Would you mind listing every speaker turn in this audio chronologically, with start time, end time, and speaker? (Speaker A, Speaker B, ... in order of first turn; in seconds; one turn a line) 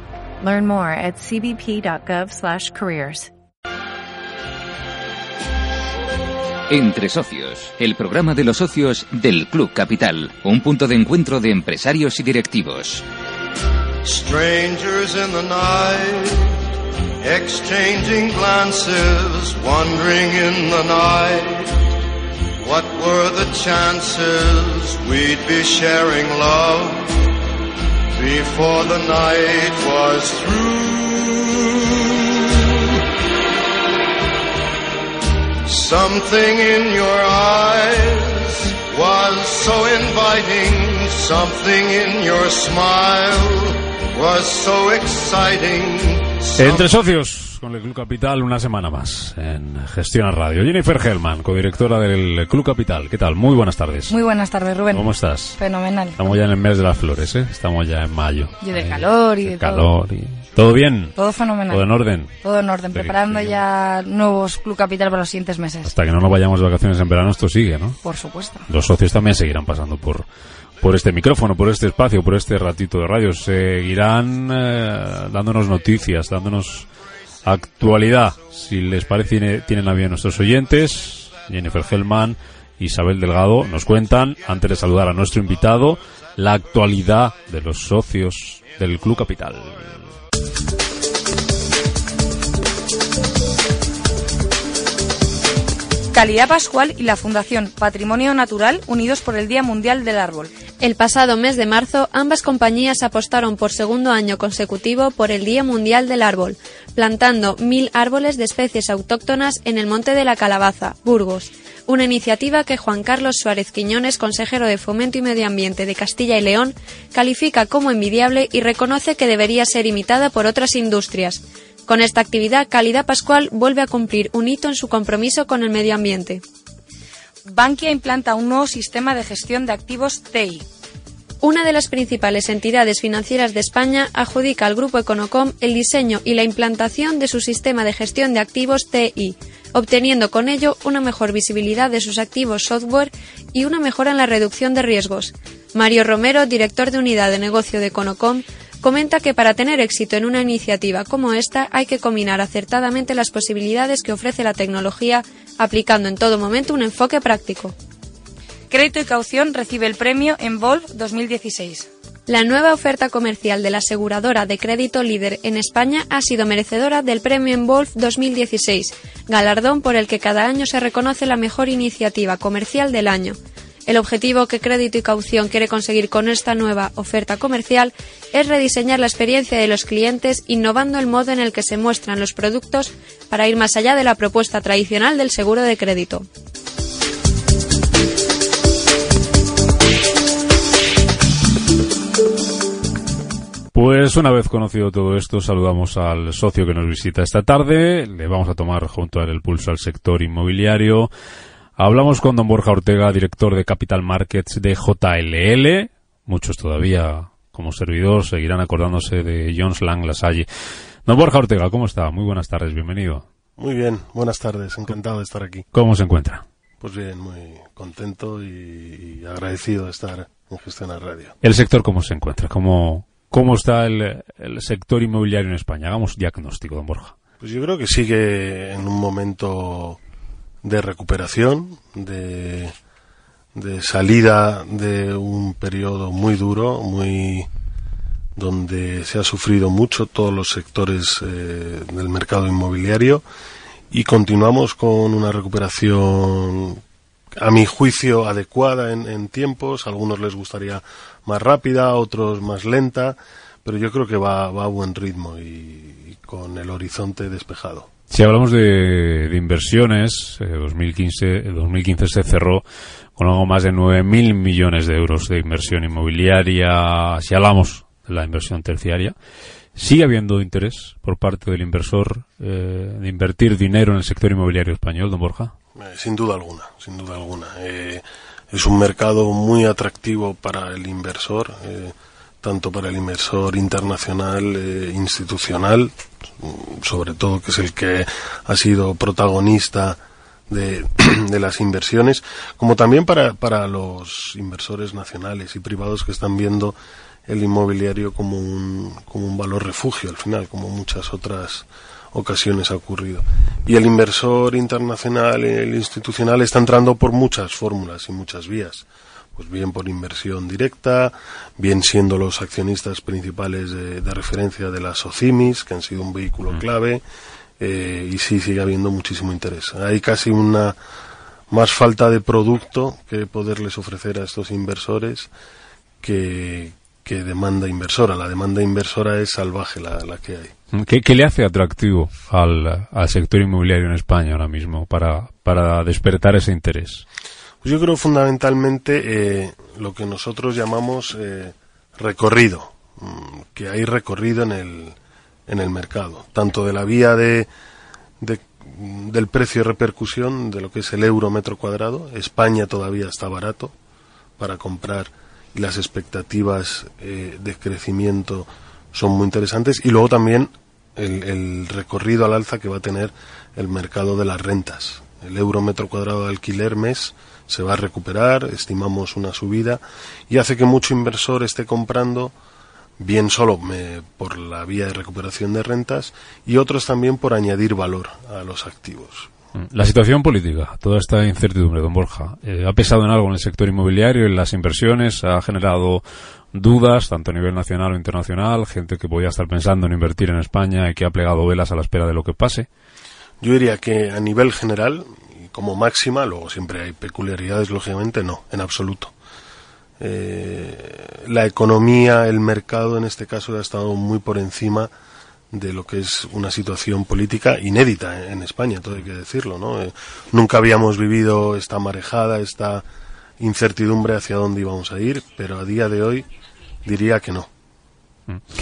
Speaker A: 0.4-3.3
Speaker B: 6.7-13.0
Speaker C: 14.1-16.4
Speaker C: 17.2-21.7
Speaker C: 22.6-27.0
Speaker C: 28.2-32.4
Speaker C: 35.7-46.5
Speaker D: 46.5-54.2
Speaker E: 54.1-55.0
Speaker D: 54.9-55.6
Speaker E: 55.6-56.2
Speaker D: 56.1-63.6
Speaker E: 58.6-59.9
Speaker E: 61.2-61.8
Speaker E: 62.4-65.9
Speaker D: 65.8-68.0
Speaker E: 68.0-68.6
Speaker D: 68.7-70.3
Speaker D: 70.8-76.9
Speaker D: 77.4-90.0
Speaker E: 96.2-100.5
Speaker F: 100.8-126.4
Speaker E: 127.6-130.6
Speaker F: 131.4-157.7
Speaker E: 158.7-161.8
Speaker F: 162.3-186.2
Speaker D: 193.7-201.1
Speaker D: 201.8-210.5
Speaker D: 211.1-213.2
Speaker G: 213.6-215.6
Speaker D: 215.7-216.4
Speaker G: 216.8-221.3
Speaker D: 221.4-227.2
Speaker G: 227.4-230.0
Speaker G: 230.6-232.7
Speaker G: 233.5-237.5
Speaker G: 238.3-243.2
Speaker G: 243.9-246.8
Speaker G: 247.4-257.9
Speaker D: 258.1-262.6
Speaker D: 263.1-269.1
Speaker D: 269.7-275.5
Speaker G: 275.8-317.0
Speaker G: 317.6-320.8
Speaker G: 321.5-325.3
Speaker G: 326.0-330.5
Speaker D: 330.7-337.0
Speaker G: 337.6-344.9
Speaker G: 345.5-347.5
Speaker G: 348.2-353.7
Speaker G: 354.4-372.3
Speaker G: 373.0-379.3
Speaker D: 379.6-392.7
Speaker G: 393.4-399.1
Speaker G: 400.0-404.9
Speaker G: 405.5-412.9
Speaker G: 413.4-416.2
Speaker G: 416.8-417.5